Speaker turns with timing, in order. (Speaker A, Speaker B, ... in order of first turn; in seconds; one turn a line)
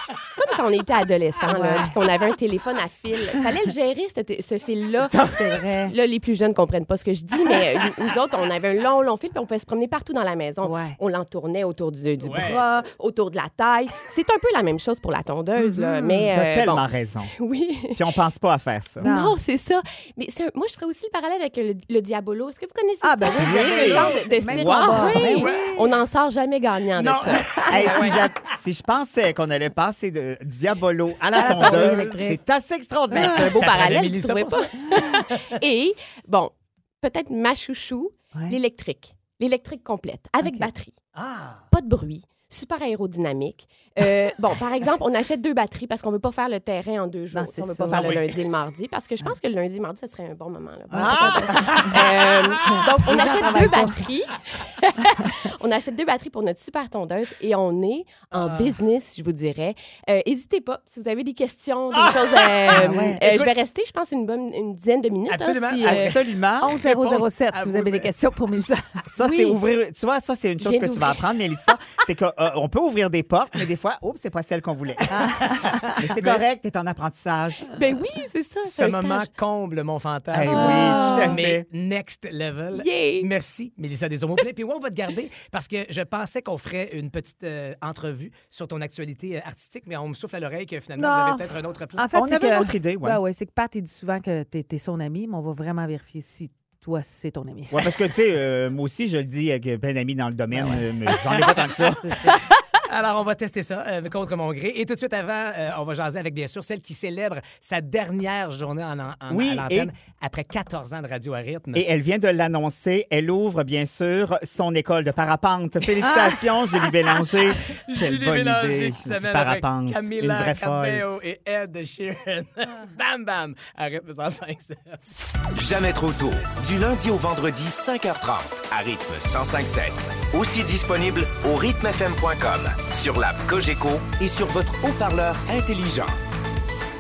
Speaker A: 0.3-18.2
Speaker B: 1.5-1.9
Speaker B: 5.2-6.0
Speaker B: 10.6-11.0
Speaker C: 12.2-12.7
Speaker B: 15.6-16.2
Speaker D: 16.4-17.3
Speaker D: 18.3-19.1
Speaker B: 19.0-19.4
Speaker A: 19.0-28.2
Speaker B: 23.0-25.9
Speaker D: 23.4-25.4
Speaker C: 25.4-25.7
Speaker C: 26.9-28.2
Speaker B: 27.4-28.0
Speaker D: 27.7-33.6
Speaker C: 31.4-32.4
Speaker B: 31.4-32.4
Speaker A: 33.1-41.0
Speaker C: 33.2-35.5
Speaker B: 40.4-40.7
Speaker C: 41.1-41.7
Speaker A: 41.7-66.2
Speaker B: 47.3-48.2
Speaker C: 48.0-48.2
Speaker B: 50.9-51.9
Speaker D: 51.0-51.8
Speaker B: 52.6-54.1
Speaker C: 58.3-58.8
Speaker D: 62.1-63.5
Speaker B: 62.7-63.2
Speaker C: 65.3-68.1
Speaker D: 65.8-66.7
Speaker B: 66.6-68.8
Speaker D: 69.1-75.2
Speaker A: 69.2-69.7
Speaker A: 70.6-71.4
Speaker B: 75.2-76.0
Speaker C: 75.2-76.4
Speaker D: 75.9-77.8
Speaker A: 77.7-79.3
Speaker C: 78.7-92.1
Speaker D: 80.3-81.5
Speaker A: 80.4-81.4
Speaker B: 80.5-81.4
Speaker A: 82.7-83.3
Speaker B: 91.0-98.0
Speaker D: 92.1-93.2
Speaker D: 97.7-102.1
Speaker C: 100.6-111.9
Speaker B: 101.8-102.5
Speaker D: 109.3-109.9
Speaker D: 111.9-121.0
Speaker C: 117.7-125.0
Speaker E: 125.5-136.2